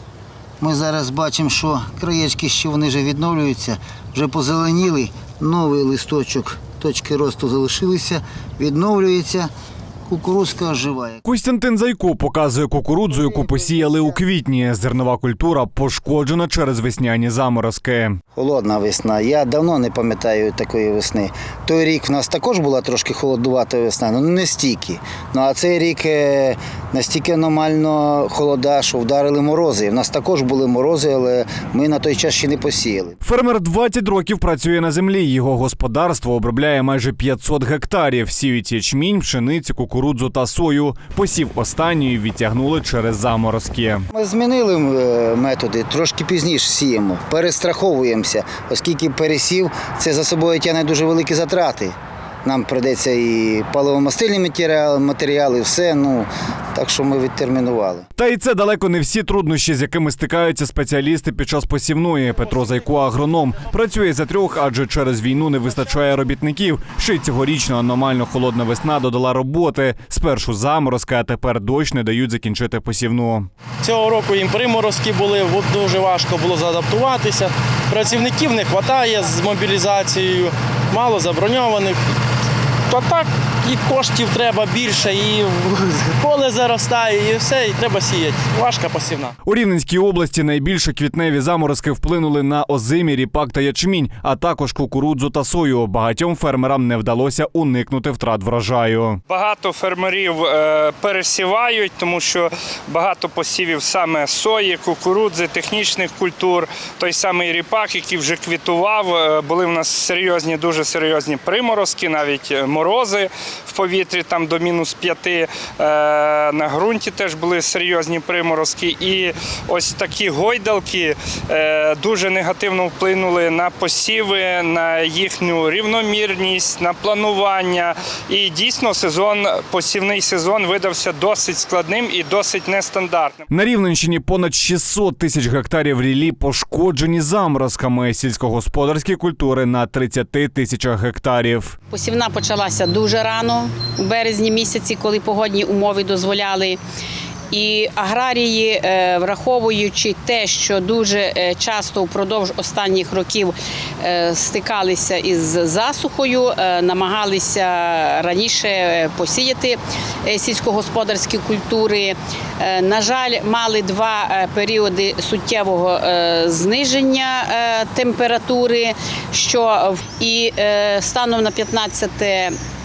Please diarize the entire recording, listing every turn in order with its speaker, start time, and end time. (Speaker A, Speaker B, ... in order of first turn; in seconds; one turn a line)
Speaker A: 0.6-9.5
Speaker A: 10.1-11.2
Speaker B: 11.2-18.2
Speaker A: 18.3-33.2
Speaker B: 33.2-44.1
Speaker A: 44.1-58.0
Speaker B: 58.2-73.5
Speaker C: 73.8-82.0
Speaker C: 82.9-89.3
Speaker B: 89.4-99.2
Speaker D: 99.3-133.4
Speaker B: 133.5-141.8
Speaker E: 141.9-146.8
Speaker E: 147.5-172.5